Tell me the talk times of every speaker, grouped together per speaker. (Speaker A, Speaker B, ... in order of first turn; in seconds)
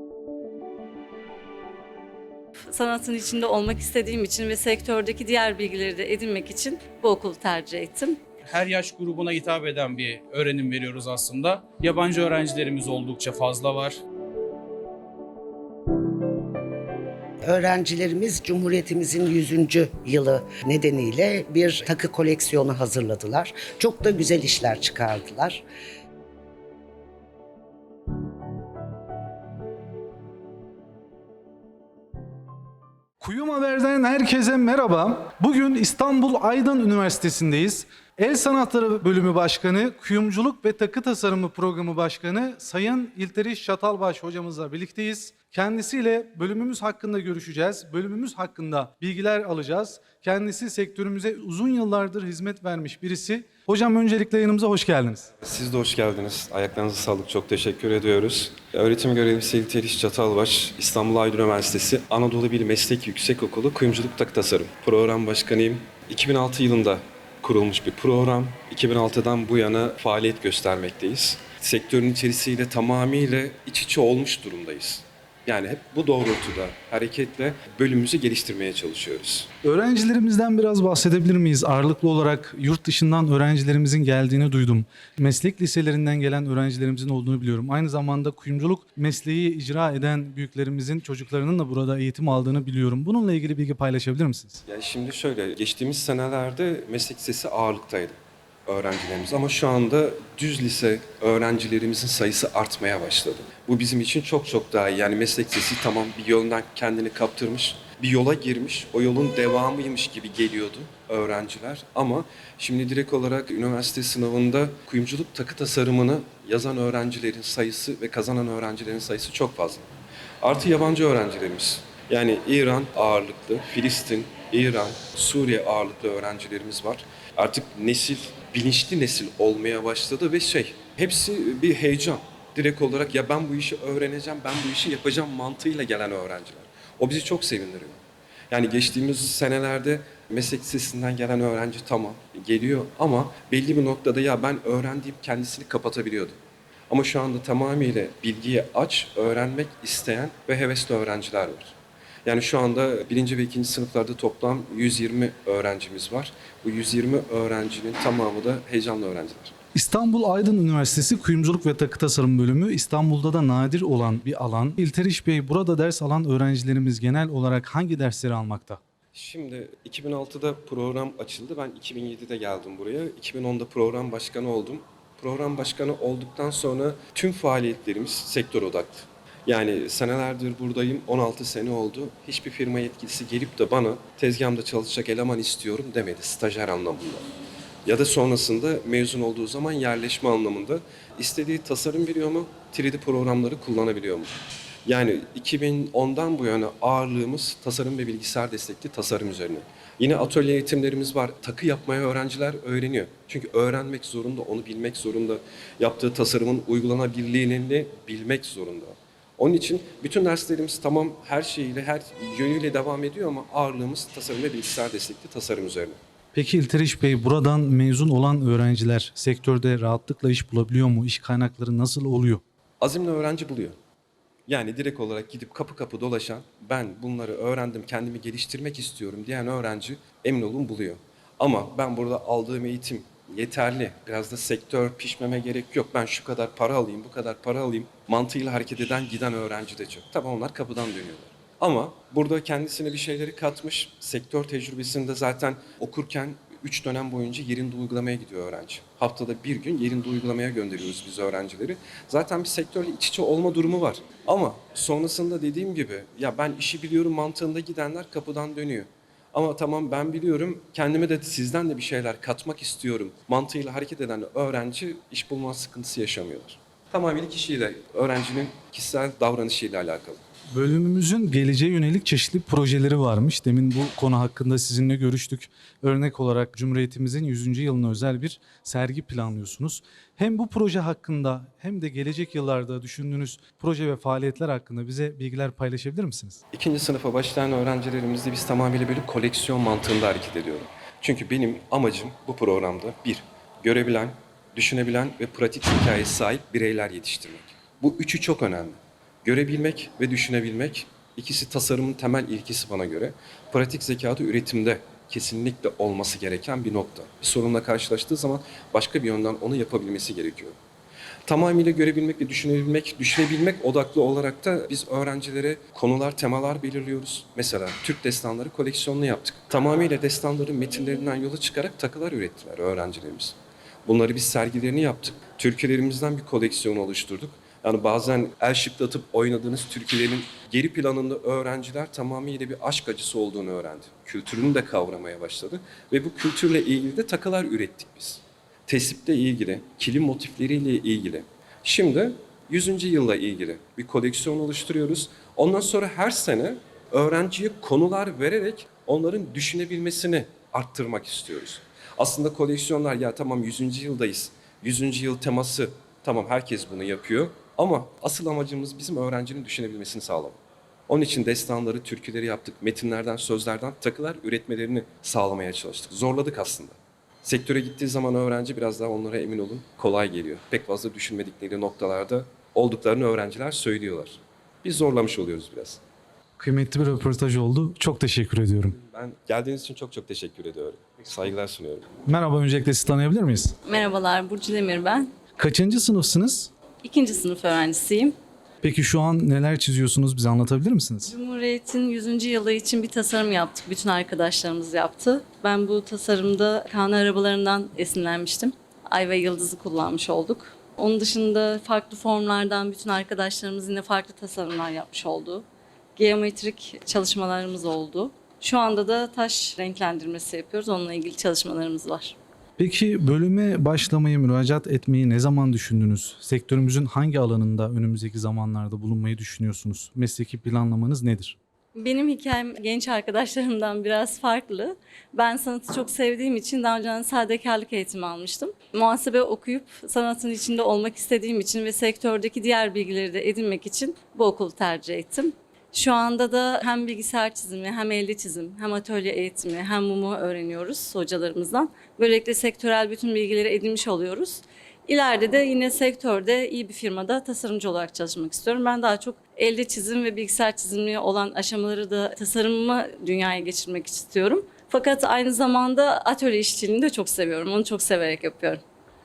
Speaker A: 2.7-8.2, 383.6-385.1, 386.8-388.1, 391.0-405.4, 405.9-412.1, 421.7-458.6
Speaker B: 8.4-14.0
Speaker C: 17.4-25.6
Speaker D: 33.2-55.3, 79.6-94.6, 159.7-168.8, 216.3-222.4, 270.5-286.4, 376.4-378.8, 382.1-383.6, 385.4-386.5, 388.6-391.1, 412.6-421.4
Speaker E: 55.4-79.5, 94.6-119.9, 120.4-146.4, 146.9-151.7, 152.2-159.5, 169.1-187.2, 187.8-194.3, 194.8-216.0, 222.8-223.8, 224.5-270.2, 286.5-310.6, 311.2-375.8, 378.8-381.9